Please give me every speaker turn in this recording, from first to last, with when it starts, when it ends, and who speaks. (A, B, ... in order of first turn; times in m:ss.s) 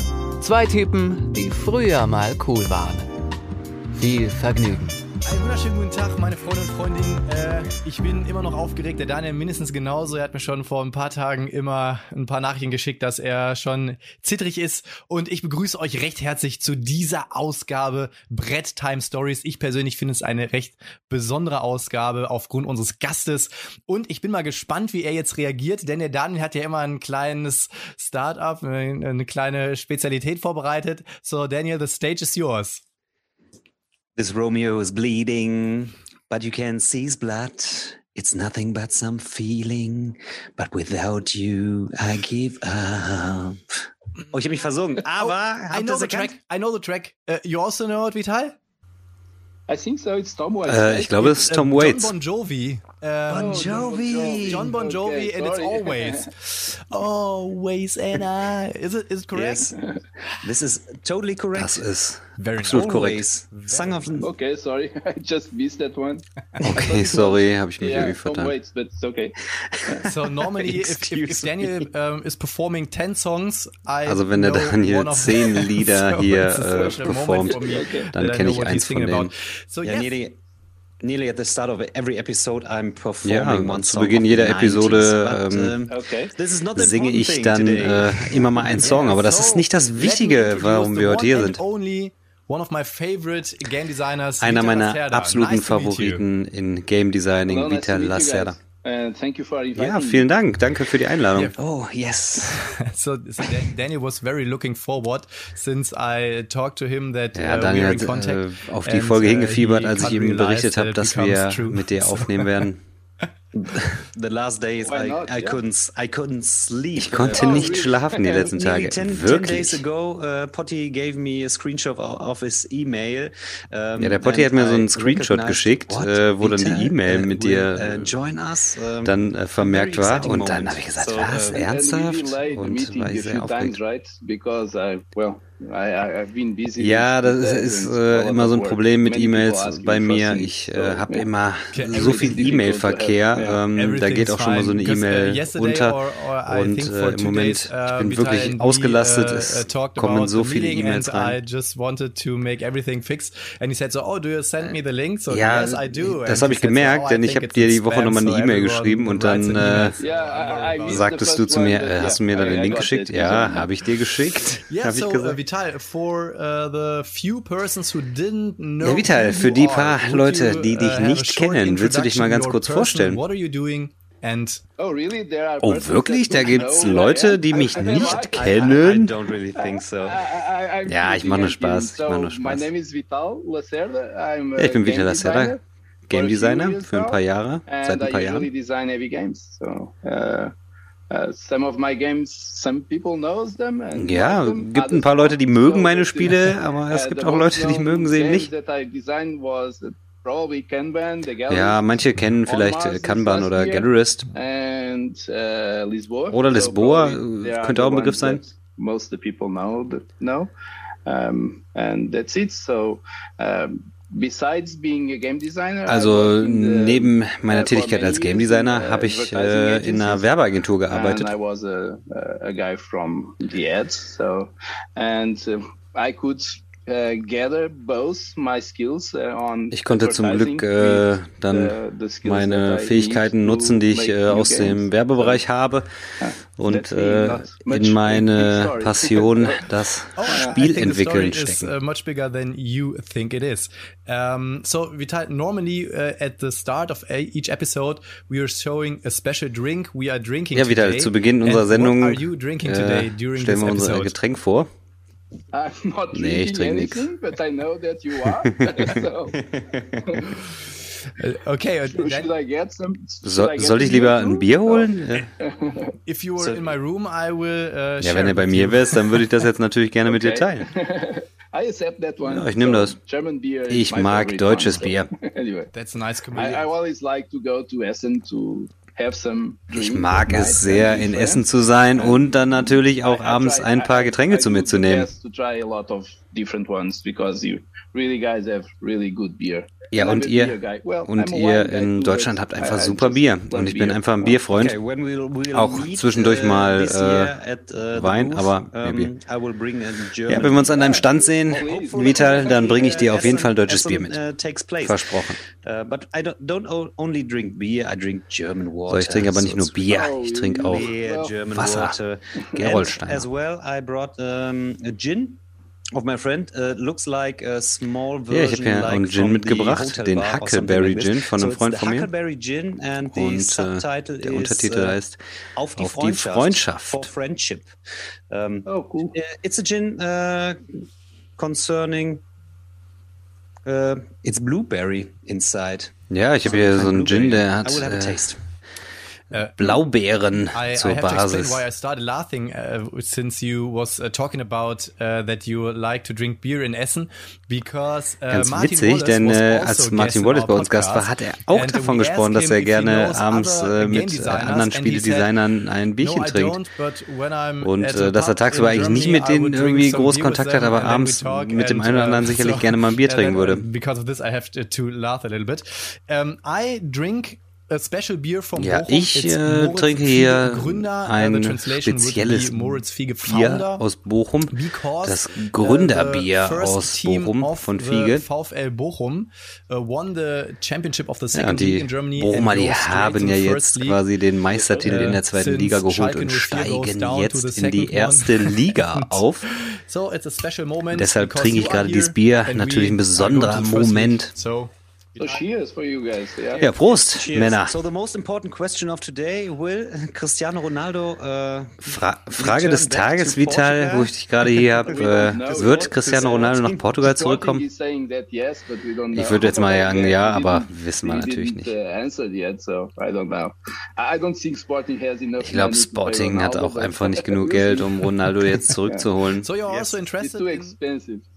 0:00.4-0:03.1 A
0:03.9-0:05.0 A
0:05.2-0:32.8 B
0:34.2-0:46.4 C
0:45.2-0:48.6 B
0:49.7-0:51.3 D
0:50.6-0:52.1 E
0:51.2-0:53.9 B
0:53.3-0:54.7 C
0:53.3-0:56.3 D
0:54.4-0:59.7 B
0:59.3-0:59.7 C
0:59.7-1:00.0 D
1:00.4-1:01.8 C
1:01.5-1:03.2 E
1:02.4-1:04.3 B
1:02.6-1:04.3 C
1:04.2-1:10.1 D
1:06.6-1:08.5 E
1:10.0-1:20.1 B
1:10.5-1:11.9 C
1:14.0-1:19.3 E
1:17.4-1:18.1 D
1:19.8-1:20.4 C
1:21.0-1:29.0 C
1:23.2-1:25.7 E
1:25.9-1:26.3 D
1:26.7-1:31.6 E
1:28.6-1:36.2 B
1:34.4-1:38.6 E
1:37.4-1:40.3 D
1:39.7-1:41.5 E
1:41.6-1:42.6 C
1:42.4-1:52.7 B
1:47.3-1:52.8 E
1:53.5-2:11.6 C
1:54.8-1:55.6 D
1:57.0-1:59.8 E
1:57.3-1:58.5 D
2:04.0-2:08.2 E
2:09.0-2:13.8 E
2:11.5-2:21.3 D
2:16.8-2:31.4 E
2:21.7-2:22.4 B
2:21.9-2:23.6 D
2:23.7-2:41.1 B
2:35.3-2:40.0 E
2:40.0-2:43.7 D
2:40.9-2:45.4 E
2:44.7-2:54.6 B
2:48.8-2:53.2 E
2:54.8-2:58.8 D
2:55.6-2:59.1 E
2:58.3-2:58.8 B
2:58.6-3:00.2 C
2:59.5-3:05.6 D
3:00.8-3:02.7 E
3:04.6-3:08.5 E
3:06.1-3:10.5 D
3:11.1-3:21.9 D
3:13.9-3:18.5 E
3:21.5-3:24.3 E
3:22.4-3:30.5 D
3:26.3-3:28.4 E
3:31.0-3:40.2 D
3:35.9-3:41.3 E
3:40.9-3:55.4 D
3:49.7-3:55.9 E
3:56.2-3:59.7 D
3:56.6-4:01.7 E
4:00.2-4:14.1 B
4:10.5-4:14.7 E
4:15.5-4:19.4 D
4:16.1-4:17.1 E
4:18.5-4:19.0 E
4:19.6-4:20.0 C
4:20.0-4:20.4 D
4:21.2-4:22.3 B
4:21.9-4:25.9 D
4:23.2-4:25.3 E
4:26.0-4:29.0 B
4:26.4-4:26.7 C
4:28.0-4:30.7 E
4:30.1-4:35.7 D
4:32.2-4:33.0 E
4:33.7-4:35.1 E
4:35.7-4:36.7 B
4:36.3-4:54.4 D
4:39.7-4:45.1 E
4:49.9-4:54.8 E
4:54.5-5:01.0 C
4:55.5-4:57.4 E
4:57.9-4:59.1 E
5:00.3-5:04.2 E
5:00.4-5:03.5 D
5:01.5-5:10.0 C
5:04.8-5:05.4 E
5:08.9-5:10.9 E
5:09.9-5:11.4 D
5:10.7-5:15.4 C
5:11.5-5:12.0 E
5:12.5-5:13.2 E
5:15.9-5:25.0 C
5:18.3-5:22.1 E
5:23.1-5:25.2 E
5:25.6-5:27.7 C
5:25.8-5:27.1 E
5:28.3-5:30.7 C
5:28.6-5:29.1 D
5:31.4-5:32.2 C
5:33.6-5:38.4 C
5:36.1-5:38.3 E
5:39.3-5:39.8 B
5:39.6-5:41.6 E
5:40.4-5:55.3 B
5:48.3-5:56.6 E
5:56.0-6:13.8 B
5:57.6-6:03.6 E
6:08.6-6:18.2 E
6:14.5-6:24.0 B
6:21.3-6:29.4 E
6:24.8-6:35.4 B
6:30.9-6:34.3 E
6:35.2-6:36.6 D
6:36.6-6:46.9 C
6:36.6-6:37.8 E
6:41.8-6:47.6 E
6:44.8-6:58.1 D
6:49.1-6:51.7 E
6:55.4-6:59.5 E
6:58.6-6:59.1 D
6:59.4-7:00.8 B
6:59.7-7:01.2 D